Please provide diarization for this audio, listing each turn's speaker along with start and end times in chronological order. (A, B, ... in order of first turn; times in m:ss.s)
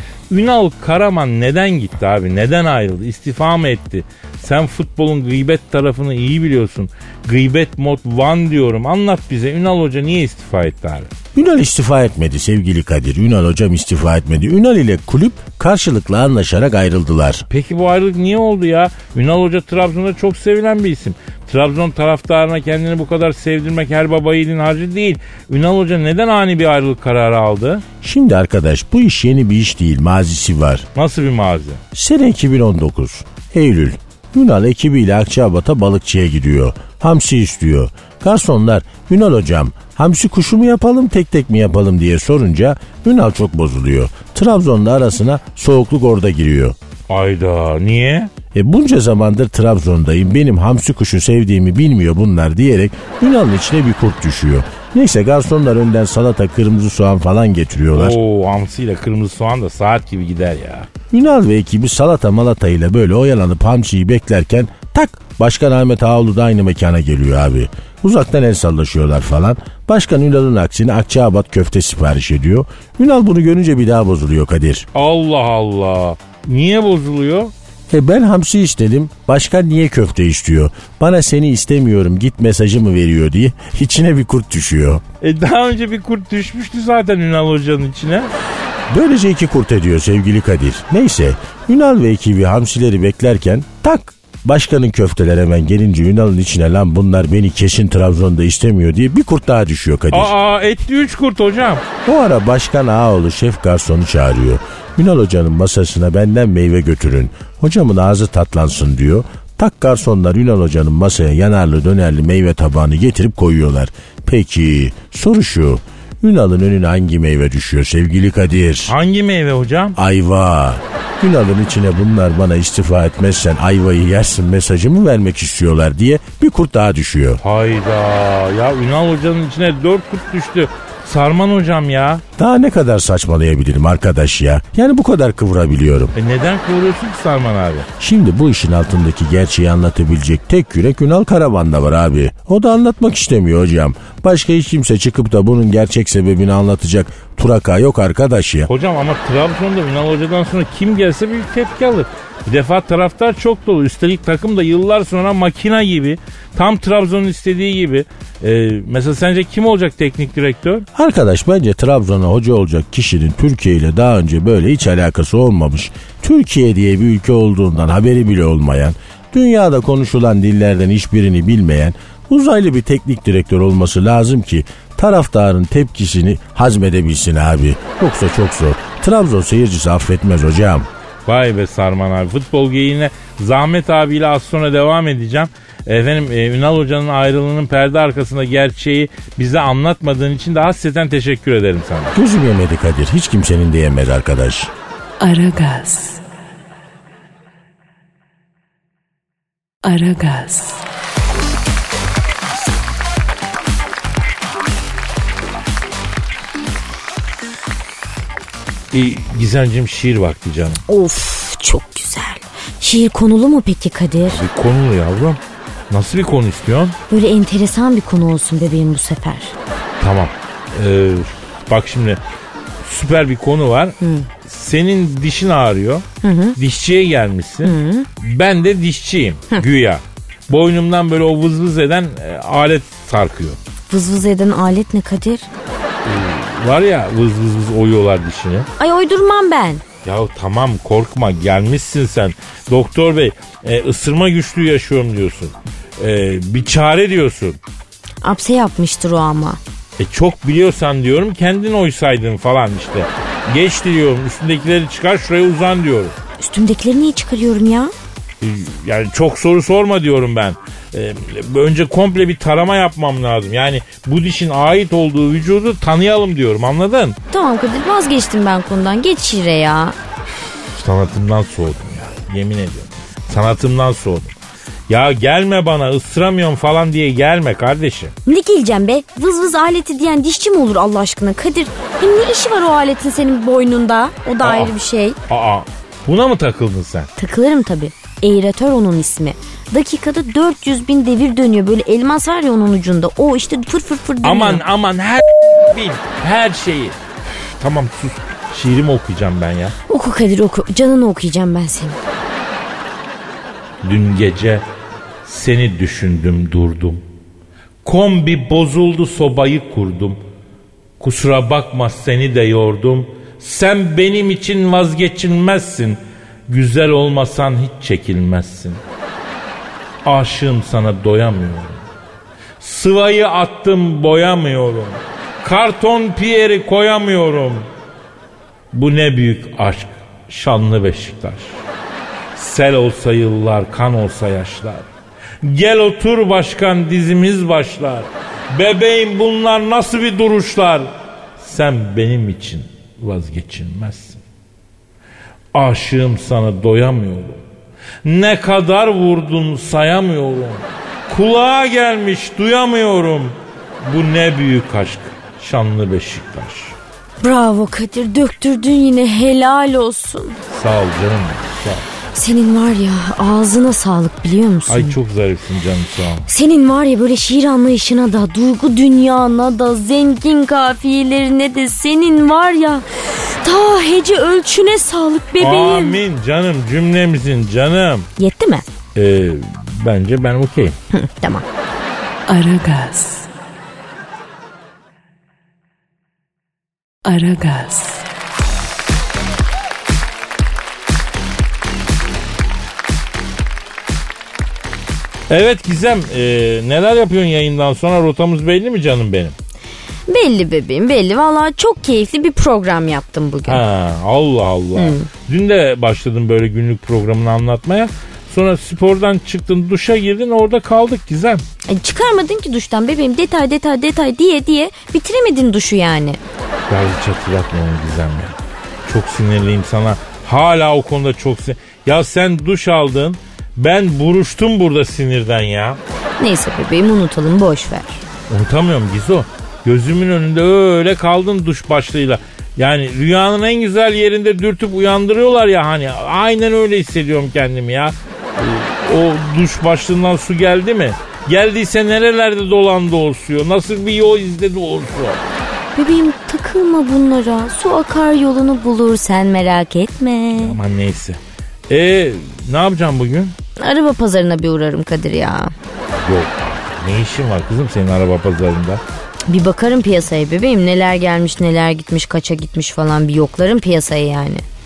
0:00.3-0:11.1 A
0:11.3-0:17.4 B
0:17.5-0:27.8 A
0:28.0-0:30.9 B
0:30.9-0:31.8 A
0:31.9-0:46.8 B
0:47.1-0:48.3 A
0:48.5-0:58.2 B
0:57.9-1:00.9 A
1:01.1-1:14.9 B
1:14.9-1:17.5 A
1:17.9-1:25.0 B
1:25.2-1:28.3 A
1:28.9-1:40.3 B
1:40.1-1:41.8 A
1:42.0-1:58.9 B
1:58.9-2:00.0 A
1:59.9-2:07.4 B
2:07.4-2:12.2 A
2:12.4-2:16.1 B
2:16.2-2:17.9 A
2:18.0-2:28.7 B
2:28.7-2:40.8 A
2:40.9-3:00.9 B
3:01.2-3:12.1 A
3:12.1-3:14.7 B
3:15.2-3:16.2 C
3:19.8-3:20.8 C
3:28.9-3:30.8 A
3:30.9-3:34.4 D
3:34.2-3:37.0 A
3:37.1-3:39.5 D
3:40.0-3:42.2 A
3:42.8-3:46.0 A
3:44.0-3:44.3 D
3:46.2-3:46.6 D
3:46.6-3:53.6 A
3:47.6-3:48.1 D
3:53.9-3:55.4 D
3:56.0-3:58.7 A
3:58.8-3:59.8 D
4:00.0-4:07.6 A
4:08.2-4:09.6 D
4:10.0-4:16.2 A
4:16.4-4:17.9 D
4:18.4-4:27.2 A
4:27.3-4:29.9 D
4:30.4-4:34.3 A
4:34.9-4:38.1 A
4:38.2-4:45.2 D
4:44.4-4:44.7 A
4:45.3-4:47.1 A
4:47.2-4:54.6 D
4:54.2-4:59.7 A
4:59.9-5:02.0 D
5:03.8-5:04.7 A
5:05.2-5:07.0 A
5:07.8-5:10.2 A
5:11.0-5:18.8 A
5:20.0-5:21.8 A
5:22.6-5:27.7 A
5:28.7-5:31.6 A
5:32.3-5:34.9 A
5:35.4-5:44.2 A
5:45.5-5:47.4 A
5:48.0-5:56.8 A
5:57.2-6:00.4 D
6:00.5-6:01.9 A
6:02.1-6:05.0 D
6:04.7-6:06.3 A
6:06.3-6:16.0 D
6:15.4-6:18.1 A
6:18.2-6:18.6 D
6:19.0-6:20.8 A
6:20.9-6:21.4 D
6:22.3-6:23.3 C
6:27.0-6:28.0 C
6:35.3-6:39.3 A
6:40.1-6:43.6 D
6:43.5-6:51.4 A
6:44.7-6:45.1 D
6:51.7-6:56.2 D
6:56.7-7:05.8 A
7:06.2-7:08.0 D
7:08.3-7:25.2 A
7:25.7-7:30.6 D
7:30.3-7:33.4 A
7:33.6-7:35.5 D
7:35.9-7:38.8 A
7:39.3-7:44.4 D